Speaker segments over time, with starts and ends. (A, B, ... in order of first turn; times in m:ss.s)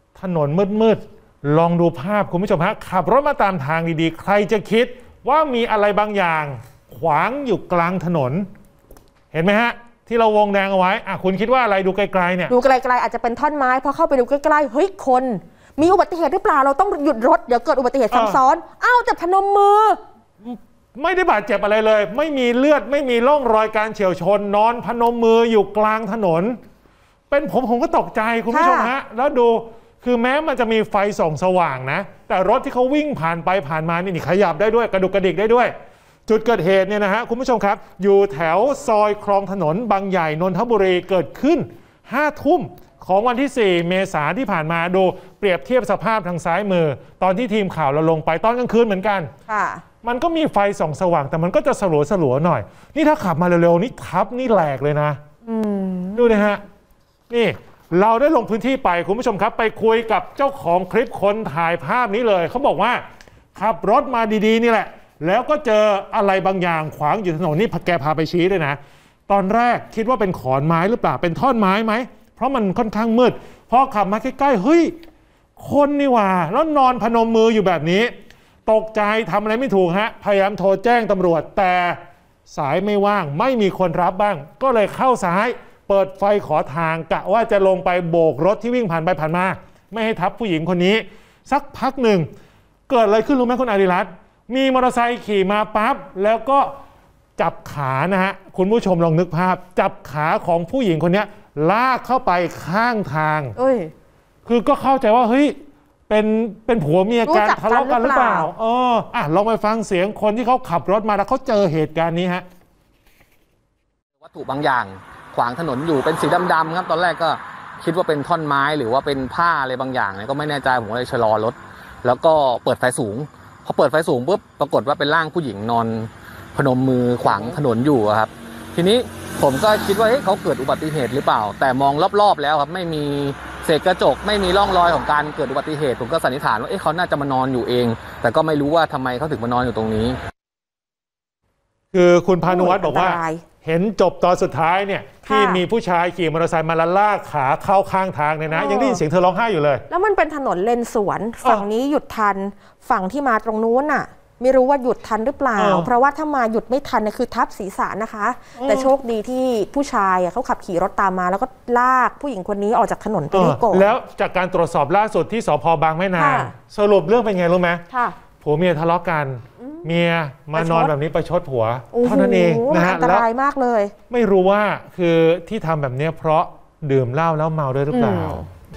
0:00.2-0:08.5 A
0:09.3-0:12.5 A
0:12.5-0:20.0 B
0:18.1-0:18.4 A
0:20.4-0:26.6 A
0:27.3-0:35.7 A
0:28.5-0:28.9 B
0:36.3-0:49.3 A
0:49.5-0:49.8 B
0:50.0-0:55.2 A
0:55.4-0:56.4 B
0:56.2-0:56.6 A
0:57.3-1:03.0 A
1:03.5-1:14.9 A
1:15.6-1:18.1 A
1:18.7-1:32.3 A
1:32.9-1:36.7 A
1:37.4-1:43.6 A
1:43.6-1:43.9 B
1:44.5-1:45.6 A
1:46.1-1:52.4 A
1:47.2-1:48.5 B
1:54.2-2:20.2 C
2:21.9-2:29.8 A
2:22.4-2:23.4 B
2:25.2-2:25.6 B
2:28.5-2:29.0 B
2:29.9-2:43.9 B
2:35.6-2:35.9 A
2:38.6-2:38.9 A
2:43.3-2:47.8 A
2:46.2-2:46.5 B
2:47.9-2:48.2 B
2:48.4-2:53.2 A
2:50.6-2:50.9 B
2:51.9-2:53.9 B
2:54.1-2:58.4 A
2:57.9-2:58.4 B